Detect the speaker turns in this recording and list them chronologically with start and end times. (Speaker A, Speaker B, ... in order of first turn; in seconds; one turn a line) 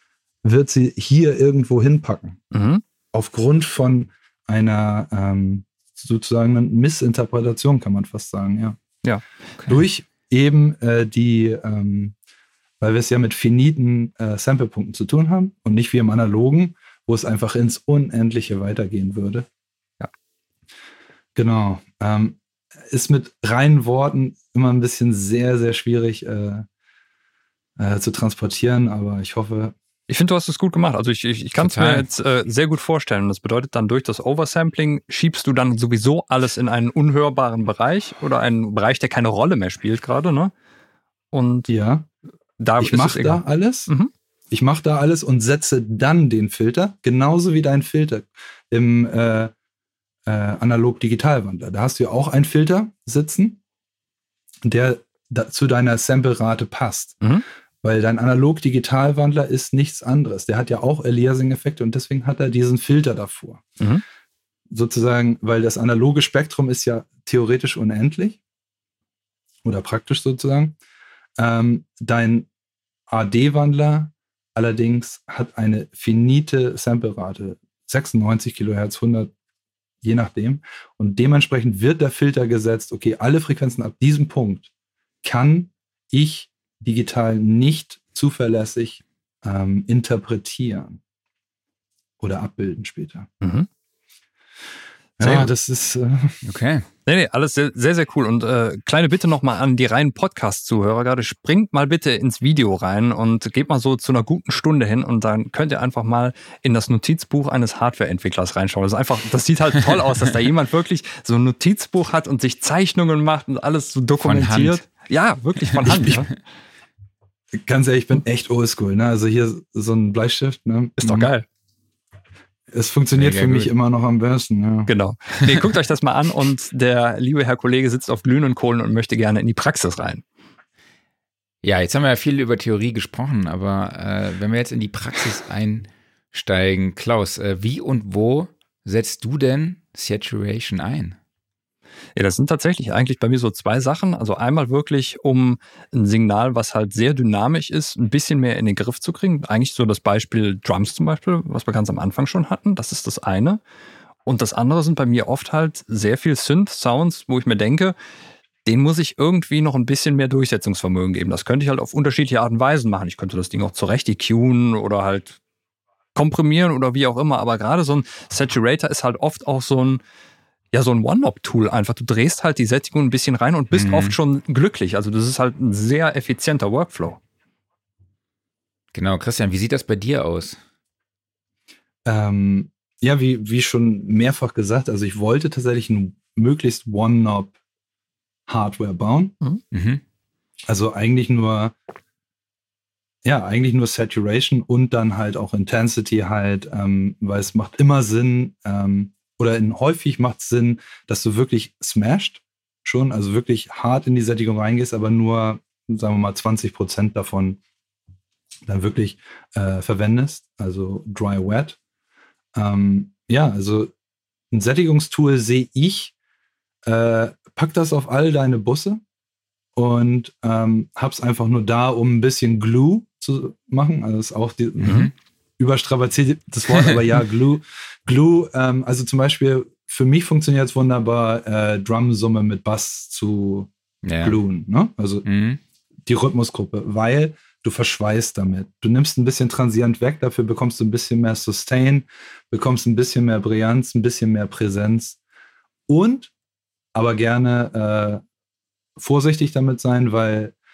Speaker A: 0.4-2.4
Speaker B: 2.5-2.8
Speaker A: 3.1-8.8
Speaker B: 9.0-9.8
Speaker A: 9.7-12.1
Speaker A: 12.8-19.5
Speaker A: 21.3-26.6
Speaker A: 27.8-29.7
Speaker B: 30.1-40.5
Speaker C: 31.6-32.0
Speaker B: 41.3-41.7
Speaker A: 41.7-42.1
Speaker B: 42.6-44.1
Speaker A: 42.8-43.9
Speaker A: 44.5-49.5
Speaker A: 50.2-53.6
Speaker A: 54.6-57.2
Speaker A: 57.8-63.8
Speaker A: 64.7-68.4
Speaker A: 69.6-70.8
Speaker A: 71.4-72.5
Speaker A: 73.1-79.3
Speaker A: 80.0-84.7
Speaker A: 85.2-91.0
Speaker A: 92.2-93.3
Speaker B: 93.4-93.7
Speaker A: 95.2-96.4
Speaker B: 95.2-95.5
Speaker C: 96.4-96.9
Speaker B: 97.0-116.3
Speaker C: 114.2-114.8
Speaker C: 115.9-116.2
Speaker A: 117.5-121.3
Speaker B: 121.0-121.5
Speaker A: 122.7-124.9
Speaker C: 123.1-123.7
Speaker B: 124.9-130.2
Speaker C: 131.6-141.2
Speaker B: 142.2-153.6
Speaker B: 154.2-157.9
Speaker B: 158.6-165.4
Speaker B: 166.1-170.0
Speaker B: 170.7-177.2
Speaker C: 173.7-174.2
Speaker C: 178.9-180.6
Speaker A: 182.0-187.6
Speaker A: 188.5-189.3
Speaker C: 189.7-190.0
Speaker A: 190.7-191.7
Speaker A: 193.2-207.6
Speaker A: 208.7-211.8
Speaker A: 212.5-213.9
Speaker A: 214.5-216.1
Speaker A: 216.8-219.0
Speaker A: 219.8-235.2
Speaker C: 224.8-225.1
Speaker B: 224.8-225.1
Speaker C: 234.0-234.4
Speaker C: 235.2-235.6
Speaker A: 236.1-245.2
Speaker A: 245.9-246.3
Speaker A: 246.9-248.2
Speaker A: 249.0-250.5